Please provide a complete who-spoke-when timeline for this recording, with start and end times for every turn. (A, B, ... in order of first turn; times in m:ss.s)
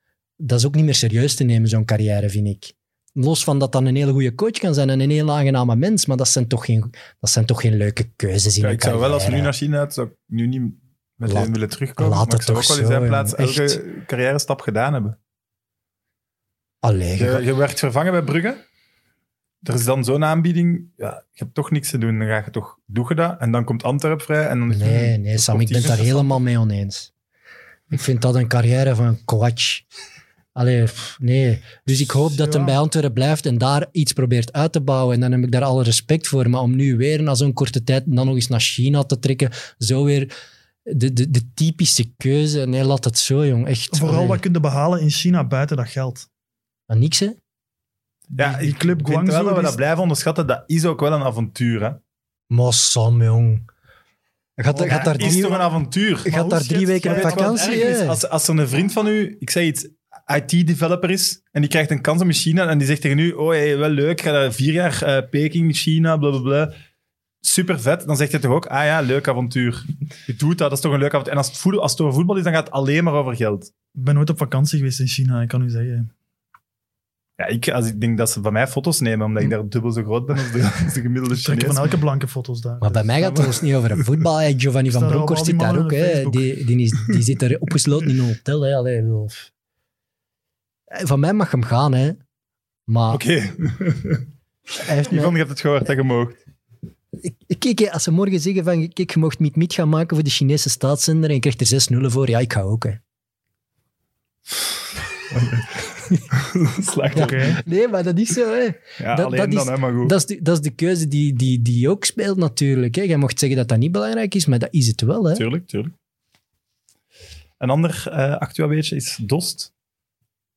0:00.4-0:09.5 A
0:08.6-0:15.2 B
0:11.2-0:13.8 A
0:16.8-0:17.5 A
0:17.2-0:18.6 B
0:19.6-0:26.4 B
0:24.7-0:27.1 A
0:27.9-0:29.8 A
0:30.6-0:40.3 A
0:32.3-0:32.8 C
0:40.9-0:44.4 A
0:43.9-0:46.3 C
0:46.9-0:47.4 A
0:48.3-0:49.8 C
0:48.4-0:52.0 B
0:52.5-0:53.7 A
0:54.6-0:55.6 A
0:54.7-0:56.3 B
0:54.9-0:55.6 C
0:56.2-0:57.9 C
0:56.2-0:58.2 A
0:57.0-1:06.8 B
1:07.4-1:13.7 B
1:14.0-1:16.1 C
1:17.4-1:22.0 B
1:21.4-1:23.1 C
1:22.8-1:29.5 A
1:23.2-1:23.6 B
1:24.9-1:26.6 C
1:30.9-1:32.2 A
1:32.9-1:33.2 A
1:33.1-1:34.2 B
1:34.8-1:35.4 A
1:35.1-1:36.4 B
1:37.2-1:43.0 A
1:45.3-1:47.6 B
1:47.1-1:55.4 A
1:47.2-1:47.6 C
1:49.0-1:50.2 B
1:55.3-1:55.9 B
1:57.6-1:59.7 B